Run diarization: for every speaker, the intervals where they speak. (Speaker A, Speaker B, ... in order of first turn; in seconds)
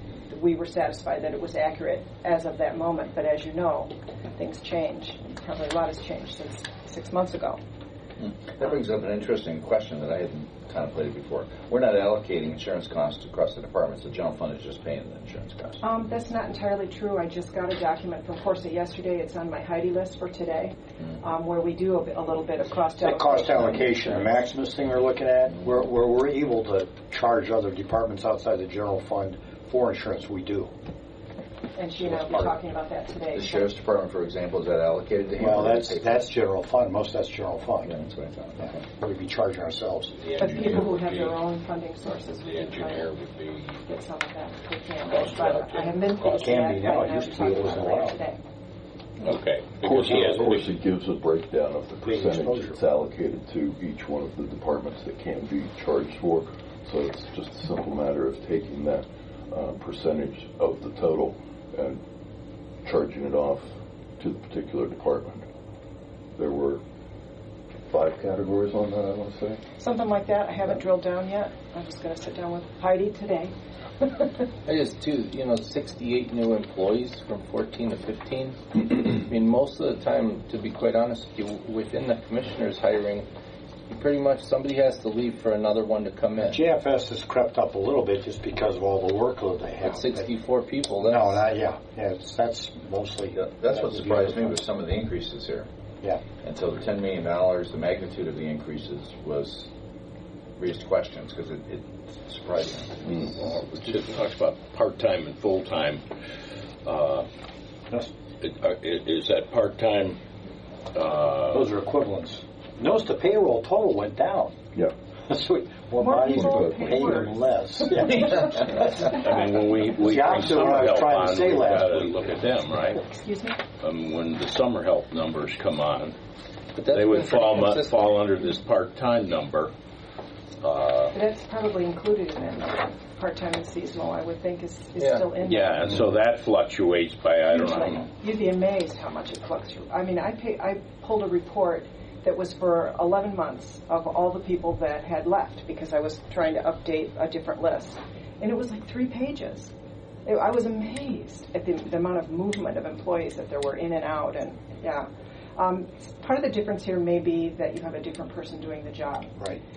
Speaker A: 0.3-7.6, 15.8-24.0, 31.8-33.7, 40.4-43.1, 43.8-48.4, 69.8-74.5, 116.0-119.1, 123.0-123.6, 131.1-136.0, 137.5-149.7, 150.2-159.3
Speaker B: 8.2-15.8, 32.0-32.6, 33.3-36.2, 37.9-38.9, 93.3-95.7, 96.4-99.7, 100.6-103.7
Speaker C: 23.0-30.7, 35.4-38.0, 38.7-40.1, 46.3-48.2, 52.0-52.8, 86.5-90.3, 91.0-94.6, 111.5-114.5, 115.3-119.1, 120.0-122.2
Speaker D: 40.1-41.4, 42.5-43.8, 45.1-46.7, 49.2-50.8, 103.6-106.0, 106.8-107.3, 108.4-110.2, 110.9-111.7, 119.0-123.0, 123.8-126.2, 126.9-129.7, 130.6-131.2, 135.4-138.1
Speaker E: 49.8-62.0, 62.8-65.5, 66.4-66.8, 67.9-69.6, 116.2-117.3
Speaker F: 74.7-83.3, 83.9-86.6, 89.9-91.5, 126.8-128.0, 135.0-135.3